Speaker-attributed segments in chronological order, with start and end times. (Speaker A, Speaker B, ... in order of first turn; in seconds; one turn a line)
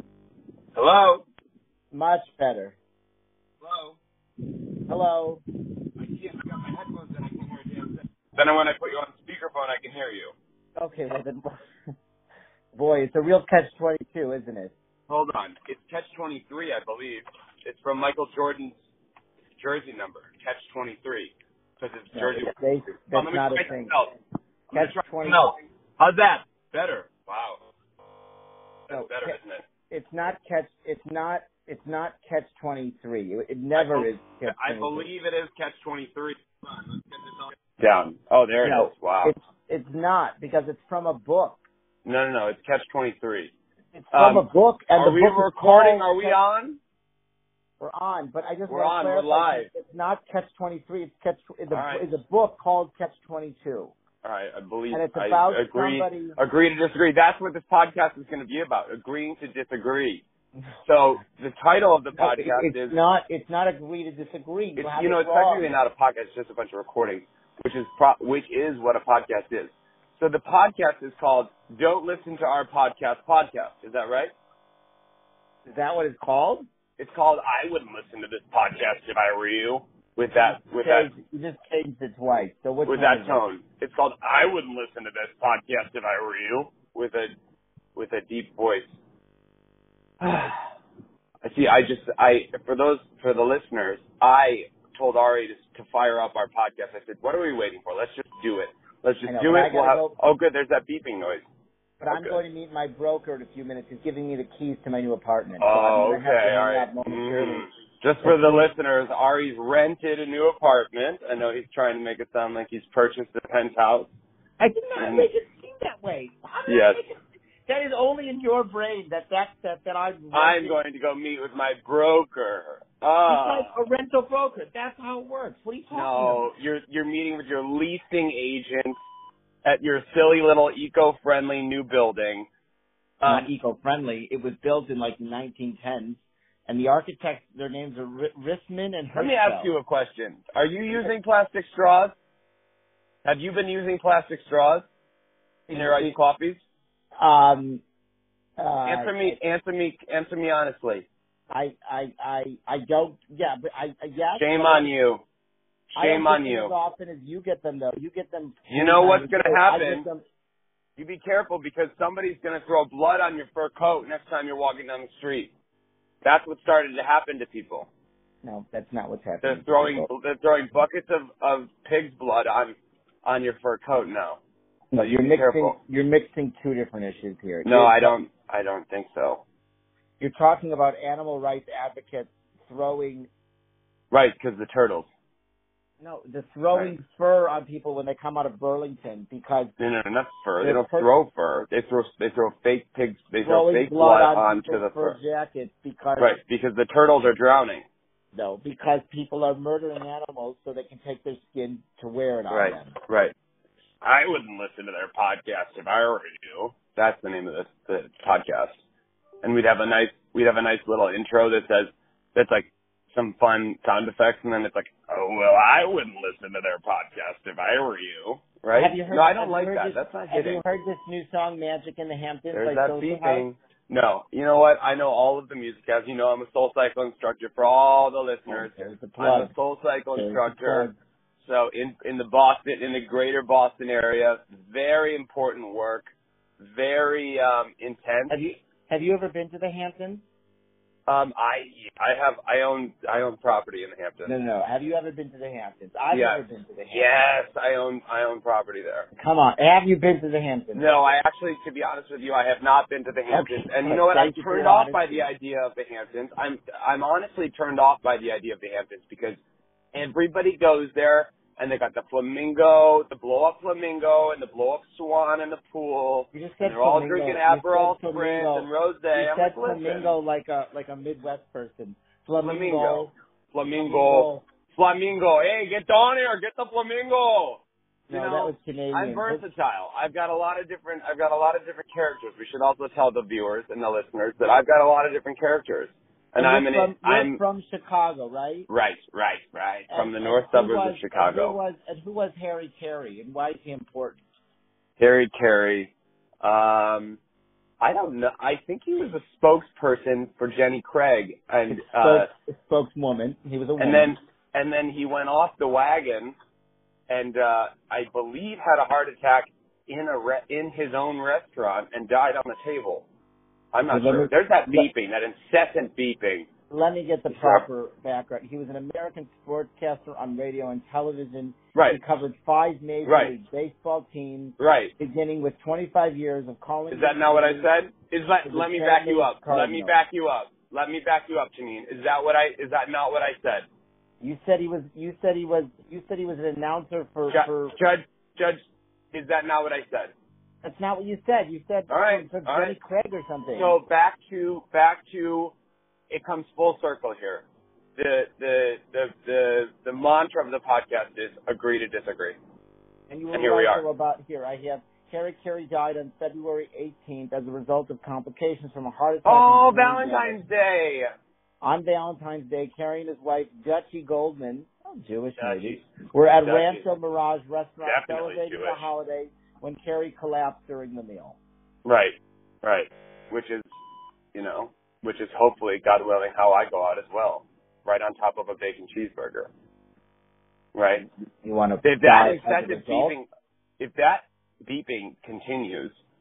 Speaker A: 0.8-1.2
Speaker B: 1.9-2.8
Speaker A: 3.6-4.0
Speaker B: 4.9-5.4
Speaker A: 6.0-10.3
Speaker B: 10.8-11.6
Speaker B: 12.8-14.7
Speaker A: 15.1-18.7
Speaker A: 19.6-22.5
Speaker B: 22.1-23.9
Speaker A: 23.1-24.1
Speaker A: 24.7-27.6
Speaker B: 24.7-25.5
Speaker A: 28.9-29.6
Speaker B: 28.9-29.4
Speaker B: 29.9-35.1
Speaker A: 33.8-39.3
Speaker B: 38.6-41.6
Speaker A: 42.0-43.5
Speaker B: 43.9-46.4
Speaker A: 44.1-44.5
Speaker A: 45.0-46.8
Speaker B: 47.8-53.9
Speaker A: 48.7-49.7
Speaker A: 51.7-52.1
Speaker A: 54.2-60.2
Speaker B: 54.9-56.4
Speaker A: 60.9-63.0
Speaker B: 62.2-65.7
Speaker A: 64.8-74.3
Speaker B: 75.7-76.7
Speaker A: 77.0-81.1
Speaker B: 80.3-83.4
Speaker A: 82.9-87.3
Speaker A: 88.0-88.9
Speaker A: 90.2-90.7
Speaker A: 91.4-101.5
Speaker B: 99.3-100.2
Speaker B: 102.0-107.7
Speaker A: 102.1-102.4
Speaker A: 105.6-114.1
Speaker B: 108.2-108.7
Speaker B: 114.6-120.8
Speaker A: 115.0-115.3
Speaker A: 116.7-117.0
Speaker A: 120.3-123.7
Speaker B: 123.3-126.5
Speaker A: 125.9-129.0
Speaker A: 129.6-132.5
Speaker A: 133.2-133.5
Speaker B: 133.2-139.7
Speaker A: 139.1-142.1
Speaker A: 143.2-144.8
Speaker B: 145.7-146.1
Speaker A: 145.7-146.6
Speaker B: 147.2-147.8
Speaker B: 148.6-149.4
Speaker A: 148.8-151.1
Speaker B: 151.5-154.9
Speaker A: 154.4-155.2
Speaker A: 155.9-156.7
Speaker B: 156.0-160.2
Speaker A: 158.7-160.1
Speaker A: 161.0-165.5
Speaker A: 166.2-167.9
Speaker B: 168.4-170.1
Speaker A: 169.4-174.4
Speaker B: 174.9-178.2
Speaker A: 175.0-175.8
Speaker A: 177.6-179.4
Speaker B: 180.2-183.3
Speaker A: 184.1-185.1
Speaker B: 186.0-189.7
Speaker A: 189.8-195.2
Speaker B: 190.6-191.1
Speaker B: 193.4-196.4
Speaker A: 196.2-197.8
Speaker B: 198.3-203.0
Speaker A: 202.5-203.3
Speaker A: 204.0-208.8
Speaker A: 209.4-220.6
Speaker B: 218.8-223.5
Speaker A: 222.5-236.1
Speaker B: 228.5-229.5
Speaker B: 230.1-230.9
Speaker A: 236.6-238.3
Speaker B: 238.3-240.2
Speaker A: 241.1-244.3
Speaker B: 244.2-247.3
Speaker A: 246.1-249.1
Speaker B: 249.2-251.1
Speaker A: 250.7-259.4
Speaker B: 253.3-255.3
Speaker A: 259.9-270.1
Speaker B: 266.3-273.1
Speaker A: 272.4-287.4
Speaker B: 273.8-274.4
Speaker B: 278.1-279.4
Speaker B: 286.4-288.7
Speaker A: 288.7-291.6
Speaker B: 289.9-294.2
Speaker A: 295.0-297.2
Speaker A: 297.8-302.3
Speaker B: 301.7-304.1
Speaker A: 303.8-306.3
Speaker A: 307.1-313.1
Speaker A: 313.7-316.5
Speaker B: 313.9-314.9
Speaker B: 316.7-327.7
Speaker A: 317.3-317.6
Speaker A: 321.8-322.0
Speaker A: 323.1-323.3
Speaker A: 324.6-324.9
Speaker A: 326.9-333.7
Speaker B: 328.4-330.0
Speaker B: 334.2-337.8
Speaker A: 337.3-338.6
Speaker A: 339.1-340.1
Speaker B: 340.6-343.8
Speaker A: 341.9-342.8
Speaker A: 343.5-345.5
Speaker A: 346.1-347.4
Speaker A: 348.0-352.4
Speaker B: 353.1-360.4
Speaker A: 353.3-353.8
Speaker A: 359.2-361.1
Speaker B: 361.6-371.4
Speaker A: 365.4-365.8
Speaker A: 366.4-366.8
Speaker A: 367.8-368.9
Speaker A: 371.9-373.7
Speaker A: 374.3-379.5
Speaker A: 380.8-381.1
Speaker B: 381.4-383.2
Speaker A: 381.8-383.3
Speaker A: 383.8-386.0